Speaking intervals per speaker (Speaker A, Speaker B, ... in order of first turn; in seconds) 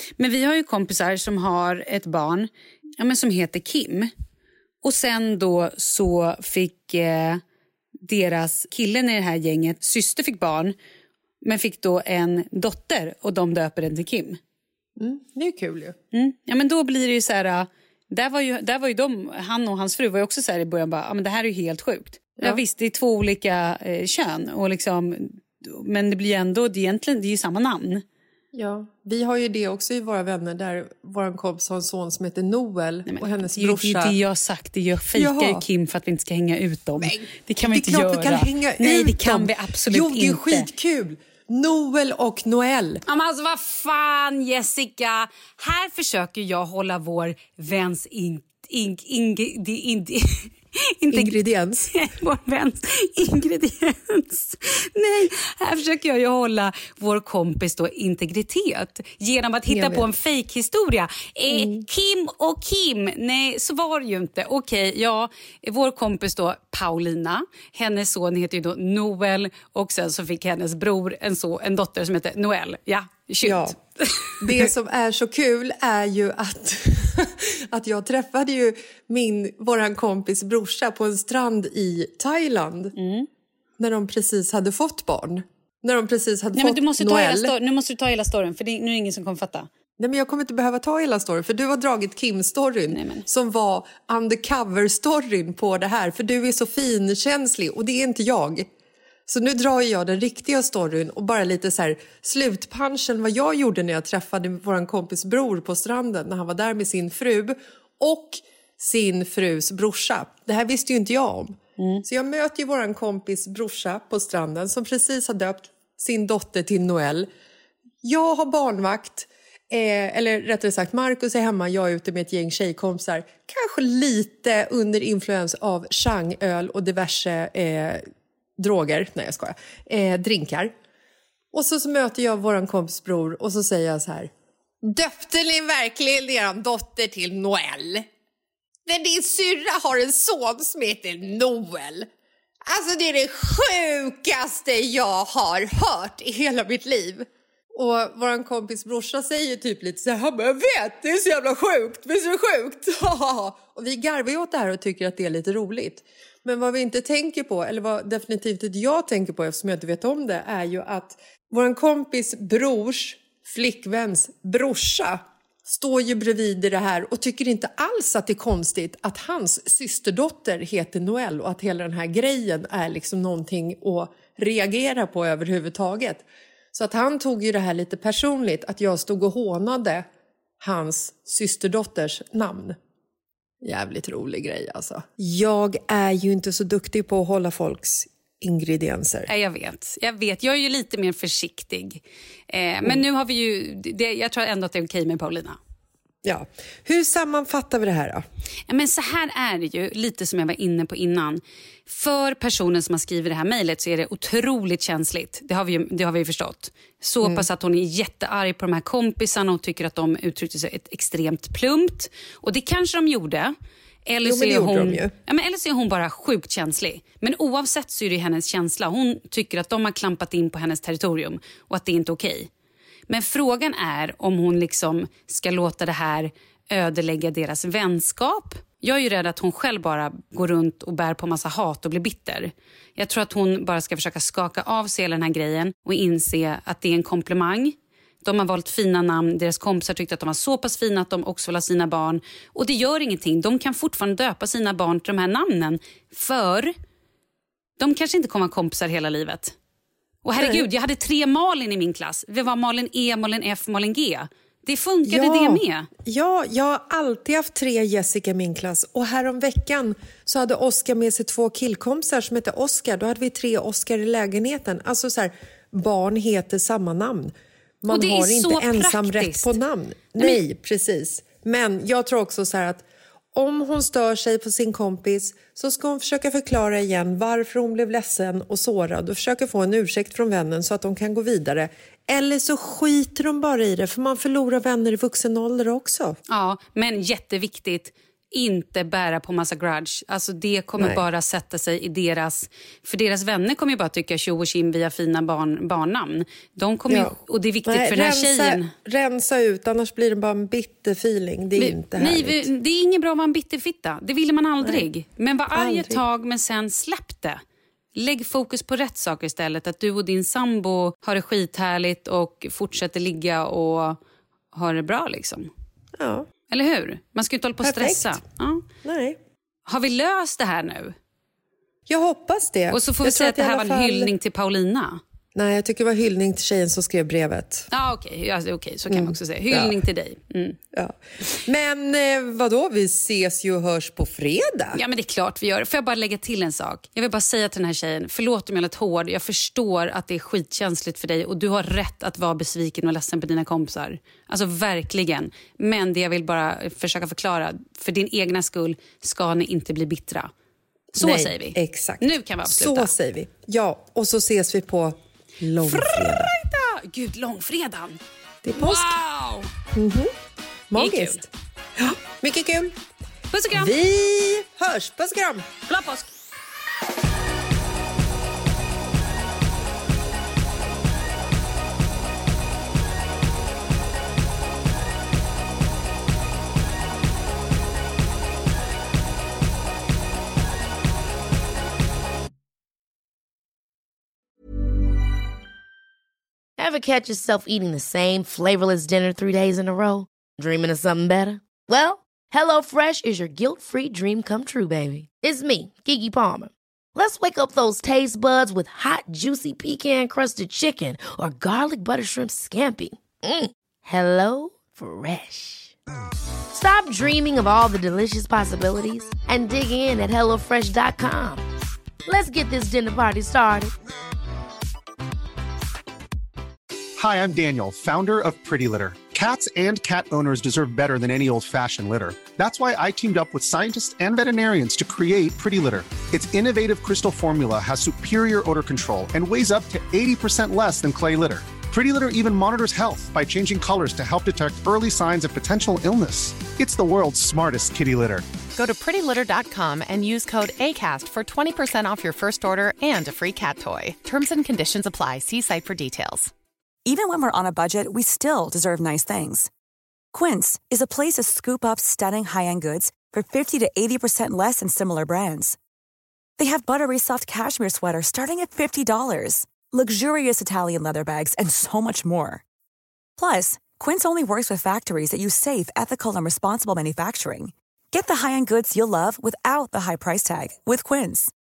Speaker A: 0.2-4.1, 4.8-7.4, 8.0-10.7, 11.4-14.4, 16.1-28.0, 33.1-40.7, 43.1-74.7, 83.0-83.3, 86.5-89.7, 92.9-93.2, 111.8-112.0, 189.3-195.6, 198.7-213.5, 214.1-222.5, 223.1-246.7, 247.8-249.5, 250.2-255.9, 267.9-269.6, 286.3-298.7, 301.6-307.4, 307.9-314.0, 314.5-315.5, 316.5-318.6, 319.6-320.9, 322.7-325.0, 327.7-330.6, 334.7-350.3, 351.0-352.9, 355.6-358.0, 358.6-359.5, 360.7-361.2, 363.3-363.8, 365.7-366.1
Speaker B: 15.0-15.9, 28.5-34.2, 35.1-35.6, 37.0-43.0, 51.1-51.9, 59.7-60.1, 61.5-61.8, 73.4-73.8, 74.4-82.9, 83.8-87.5, 90.0-98.7, 99.3-117.3, 118.0-128.0, 128.6-130.7, 131.5-134.3, 134.8-138.1, 138.8-142.1, 142.7-180.1, 180.6-182.8, 183.6-189.3, 196.2-198.2, 214.2-215.1, 250.3-250.7, 255.1-286.2, 296.9-302.5, 304.6-304.9, 305.5-306.0, 316.0-316.3, 317.6-318.2, 318.8-319.2, 321.9-324.1, 325.3-327.7, 328.9-329.8, 330.7-334.8, 351.0-356.3, 358.4-358.9, 359.7-360.1, 360.7-362.7, 363.5-365.5
Speaker C: 386.6-405.7, 406.5-411.4, 412.1-413.7
Speaker D: 417.0-438.2
Speaker E: 438.6-446.3
Speaker F: 446.8-449.5, 450.1-455.6, 456.4-462.4, 463.1-471.3